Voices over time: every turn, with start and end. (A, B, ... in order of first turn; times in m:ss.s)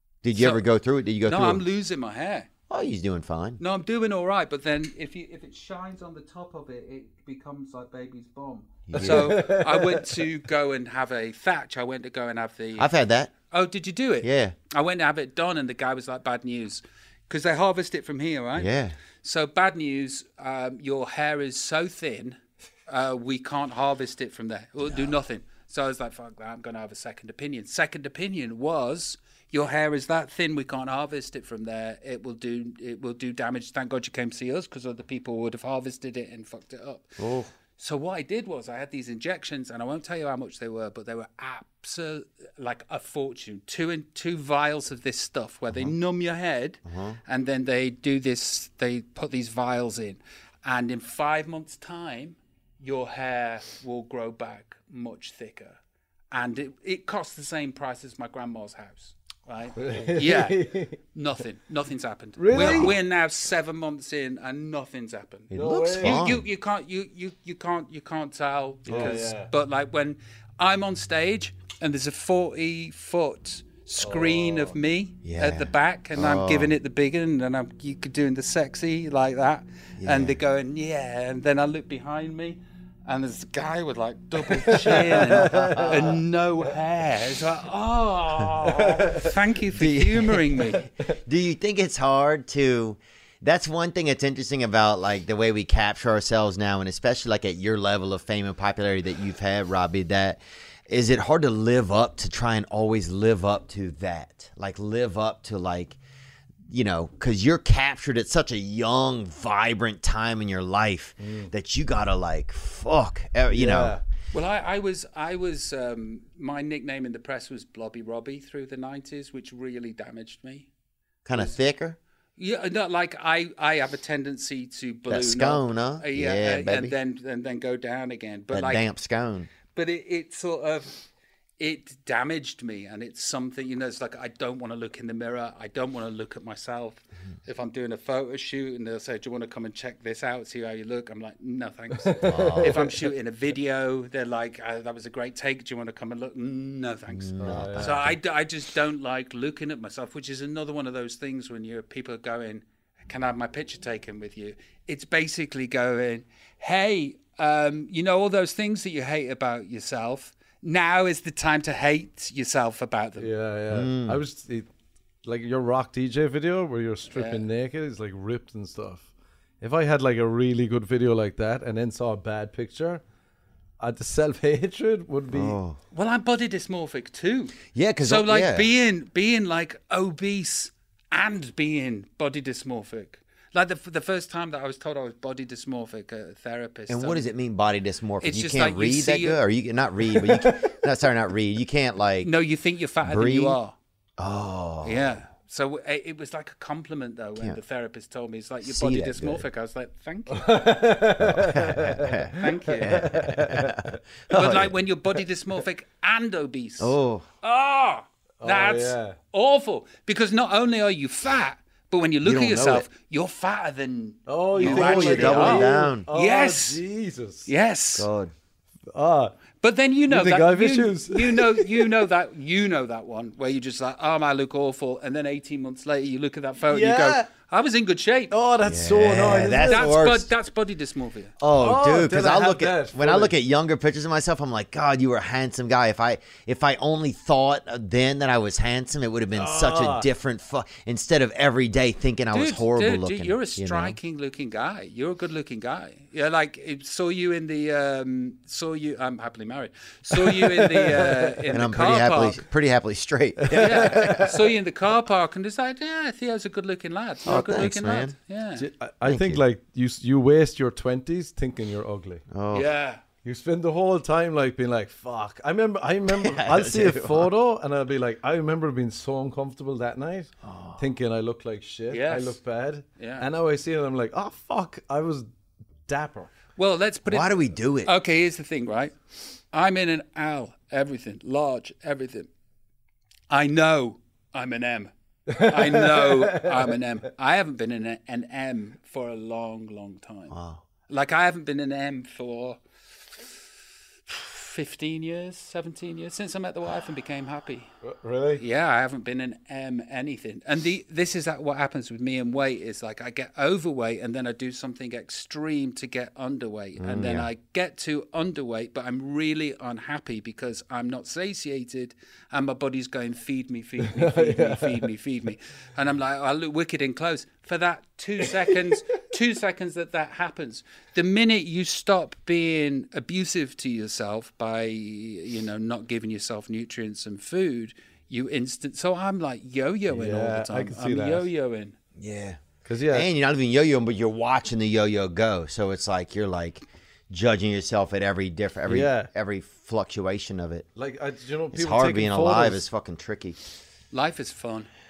0:00.2-0:01.6 A
0:00.3-0:00.6 B
0:01.2-0:02.5 B
0:02.7-0:03.6 A
0:03.6-0:12.9 B
0:08.9-0:09.5 A
0:09.0-0:10.2 C
0:12.8-0:13.3 A
0:13.5-0:37.2 B
0:14.2-0:14.6 A
0:18.6-0:19.0 A
0:37.2-0:37.5 A
0:37.8-0:55.8 B
0:46.8-0:47.2 A
0:56.3-1:30.9 B
0:59.8-1:01.0 C
1:02.4-1:03.0 C
1:02.5-1:03.0 A
1:05.5-1:06.4 A
1:05.5-1:06.3 C
1:08.9-1:09.2 A
1:08.9-1:09.5 C
1:14.0-1:14.8 C
1:15.2-1:16.7 A
1:20.0-1:20.4 A
1:24.6-1:26.2 C
1:25.2-1:26.2 A
1:28.6-1:29.3 C
1:29.7-1:30.7 A
1:31.2-1:46.0 A
1:46.7-1:54.0 A
1:51.2-1:51.5 C
1:53.5-1:54.0 C
1:54.3-2:00.7 B
2:01.2-2:02.0 A
2:02.4-2:08.9 B
2:05.1-2:07.0 A
2:08.5-2:09.5 A
2:09.7-2:11.0 B
2:11.6-2:43.3 B
2:22.0-2:23.0 C
2:22.2-2:22.9 A
2:27.1-2:28.2 A
2:27.4-2:28.0 C
2:43.2-2:44.7 C
2:43.7-2:44.2 A
2:45.2-2:49.1 C
2:47.1-2:47.4 B
2:49.6-2:53.0 C
2:53.8-2:55.6 C
2:55.3-2:55.8 A
2:55.9-3:07.3 B
2:57.7-2:58.7 A
3:06.9-3:12.3 A
3:08.2-3:09.4 B
3:12.2-3:13.8 B
3:13.0-3:13.6 A
3:14.2-3:15.2 A
3:14.8-3:20.7 B
3:18.6-3:19.4 A
3:20.3-3:24.0 C
3:21.2-3:24.8 A
3:22.4-3:22.9 B
3:24.3-3:36.8 B
3:26.8-3:27.3 A
3:28.4-3:29.2 C
3:32.2-3:32.9 A
3:34.3-3:37.5 C
3:34.6-3:36.1 A
3:37.5-3:38.1 B
3:38.0-3:38.3 A
3:38.9-3:39.4 C
3:39.6-3:48.3 B
3:40.1-3:42.1 C
3:46.7-3:47.3 C
3:48.3-3:49.9 C
3:48.6-3:50.3 A
3:49.6-3:51.3 B
3:51.4-4:04.0 A
3:51.6-3:53.3 C
3:59.3-4:00.1 C
4:02.3-4:12.4 B
4:10.2-4:11.2 C
4:11.5-4:14.3 A
4:13.4-4:14.4 C
4:13.5-4:18.7 B
4:17.3-4:18.2 A
4:18.6-4:22.2 C
4:19.0-4:19.4 A
4:22.3-4:22.7 A
4:22.5-4:23.0 B
4:23.2-4:35.3 C
4:26.1-4:27.3 A
4:30.4-4:30.8 A
4:31.9-4:32.4 B
4:33.0-4:33.3 B
4:35.9-4:36.3 C
4:36.6-4:39.0 B
4:37.1-4:37.9 A
4:39.5-4:42.3 B
4:43.3-4:50.4 B
4:45.3-4:46.8 C
4:50.3-4:50.6 A
4:50.9-4:52.6 B
4:54.1-4:57.7 B
4:57.8-4:58.4 C
4:58.4-5:31.8 B
5:06.8-5:07.3 A
5:13.9-5:14.9 C
5:29.9-5:31.3 C
5:32.0-5:40.7 A
5:32.6-5:33.1 C
5:38.7-5:39.1 C
5:40.8-5:42.6 C
5:41.5-5:43.4 A
5:43.9-5:44.7 B